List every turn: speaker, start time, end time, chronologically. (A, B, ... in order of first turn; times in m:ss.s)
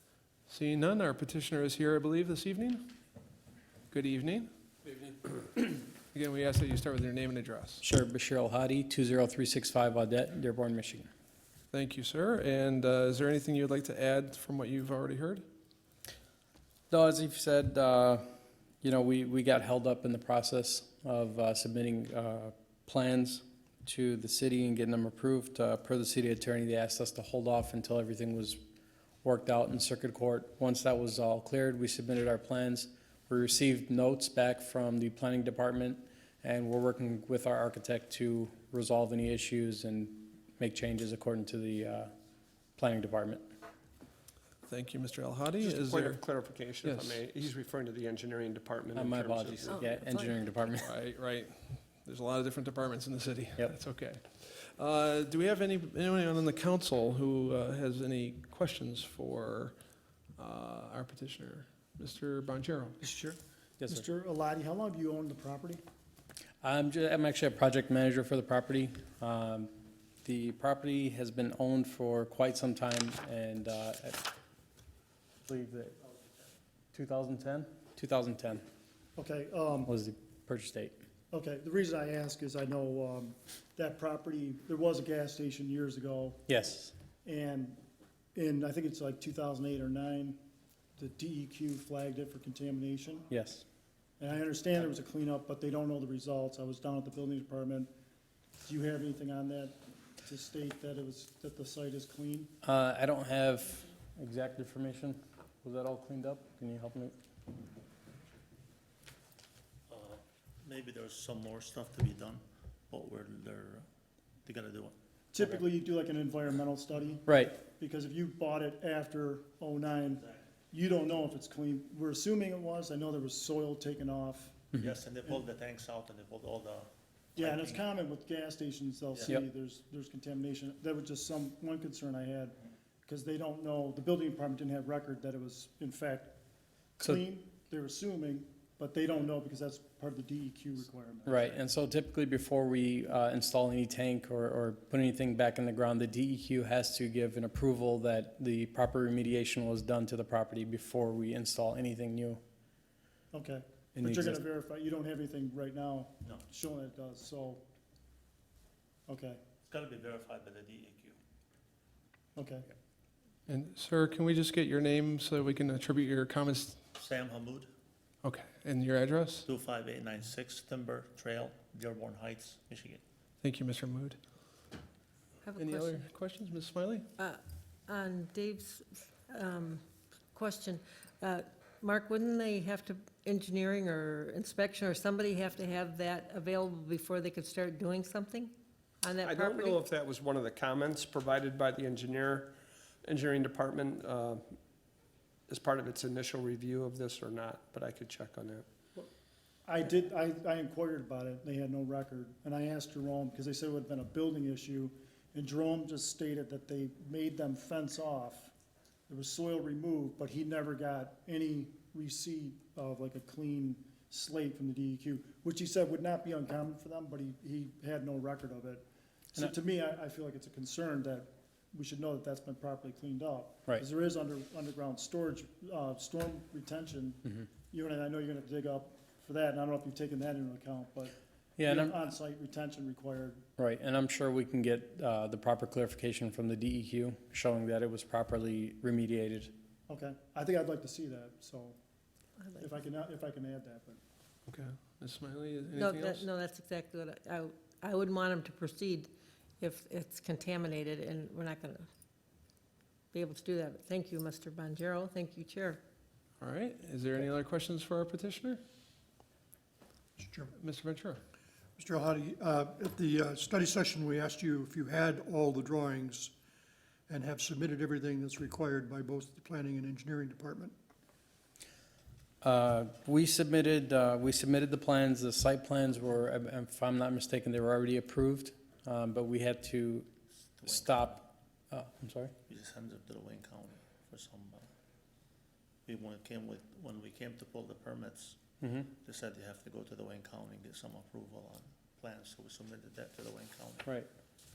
0:00.5-0:02.9 A
0:03.9-0:04.5 A
0:06.1-0:07.8 A
0:07.8-0:11.1 B
0:11.7-0:15.4 A
0:16.9-0:18.3 B
0:18.8-0:28.6 B
0:29.2-0:42.1 B
0:42.8-0:43.4 B
0:44.7-0:46.2 A
0:45.6-0:49.8 C
0:46.8-0:47.2 A
0:49.0-0:50.9 B
0:49.7-0:50.4 D
0:50.7-0:59.8 A
1:00.4-1:03.0 A
1:03.0-1:05.8 E
1:06.6-1:09.7 B
1:10.2-1:14.3 B
1:15.5-1:16.0 B
1:16.9-1:18.6 B
1:19.2-1:19.9 E
1:19.9-1:21.0 B
1:21.3-1:26.4 E
1:26.5-1:26.9 B
1:27.2-1:27.8 E
1:28.4-1:30.4 E
1:31.0-1:33.3 E
1:33.3-1:33.6 B
1:34.2-1:37.9 E
1:38.6-1:42.5 E
1:42.6-1:47.2 B
1:49.9-1:53.8 F
1:54.4-1:55.6 F
1:55.3-2:05.4 E
1:57.3-1:57.6 B
2:04.8-2:07.8 F
2:07.4-2:12.6 E
2:09.1-2:09.4 F
2:13.1-2:16.4 E
2:17.0-2:21.6 E
2:21.3-2:32.4 B
2:33.3-2:37.6 E
2:34.0-2:34.4 B
2:39.1-2:39.4 E
2:39.6-2:41.2 F
2:42.4-2:42.6 E
2:43.5-2:46.8 A
2:47.0-2:47.7 F
2:48.2-2:49.5 A
2:49.5-2:53.0 F
2:53.4-2:54.2 A
2:55.5-2:56.0 D
2:55.6-2:57.1 A
2:57.2-2:59.8 D
3:00.3-3:09.8 D
3:09.2-3:12.5 C
3:13.0-3:14.4 C
3:15.5-3:18.7 C
3:19.6-3:28.5 E
3:29.1-3:38.8 E
3:39.4-3:53.4 E
3:51.6-3:51.9 B
3:53.6-3:59.5 B
3:59.9-4:01.8 E
4:02.6-4:04.0 E
4:04.5-4:06.3 A
4:05.8-4:11.9 D
4:13.1-4:15.8 D
4:16.4-4:18.6 A
4:20.2-4:20.5 G
4:20.6-4:21.2 A
4:21.8-4:26.3 G
4:27.1-4:30.8 G
4:32.4-4:40.1 B
4:40.6-4:41.2 F
4:40.7-4:42.3 B
4:42.5-4:44.7 F
4:45.9-4:48.4 F
4:48.6-4:48.9 B
4:49.0-4:53.8 F